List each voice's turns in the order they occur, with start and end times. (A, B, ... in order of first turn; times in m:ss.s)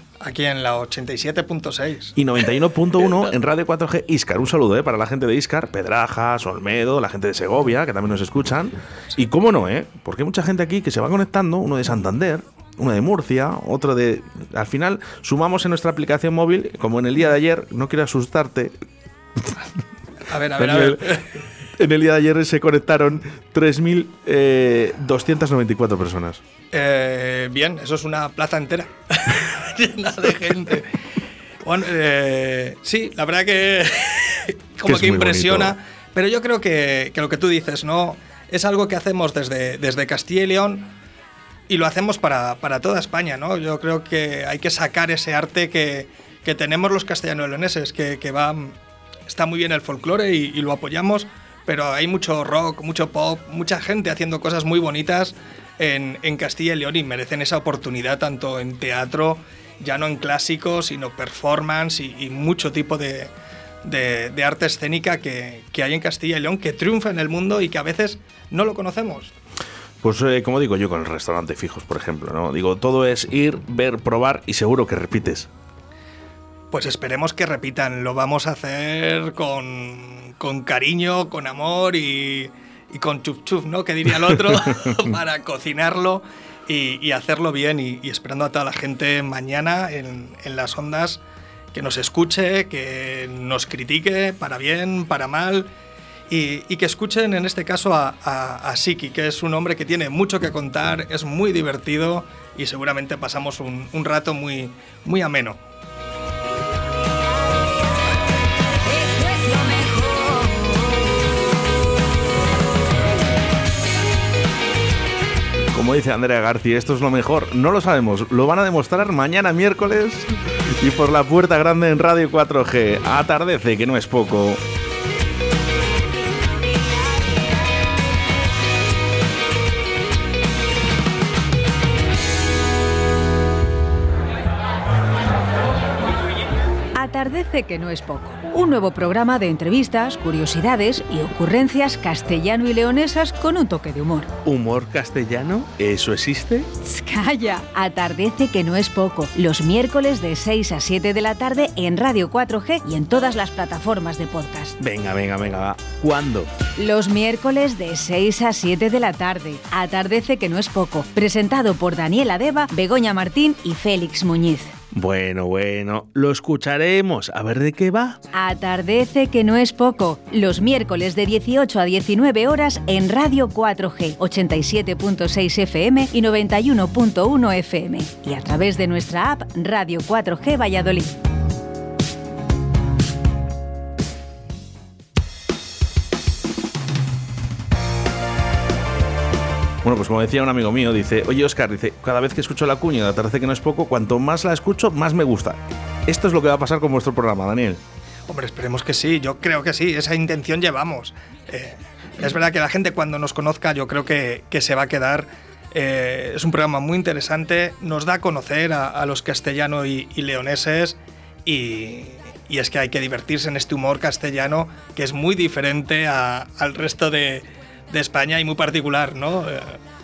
0:00.2-0:02.1 A
0:02.2-0:18.7 B
0:20.3-0:21.4 A
0:20.6-0:21.2 B
0:21.8-0:26.4 B
0:26.7-0:30.9 A
0:31.6-0:40.9 A
0:34.8-0:35.7 B
0:41.7-0:48.8 A
0:49.3-1:03.3 A
1:03.8-1:09.3 A
1:10.0-1:15.5 B
1:16.7-1:31.2 A
1:31.7-1:35.7 A
1:36.3-1:45.6 A
1:55.7-2:04.6 B
2:17.0-2:24.3 C
2:24.4-2:26.7 B
2:26.8-2:34.8 C
2:34.8-2:36.5 B
2:36.8-2:44.7 C
2:44.9-2:48.2 B
2:48.3-3:01.2 C
3:09.8-3:17.8 B
3:18.3-3:39.8 A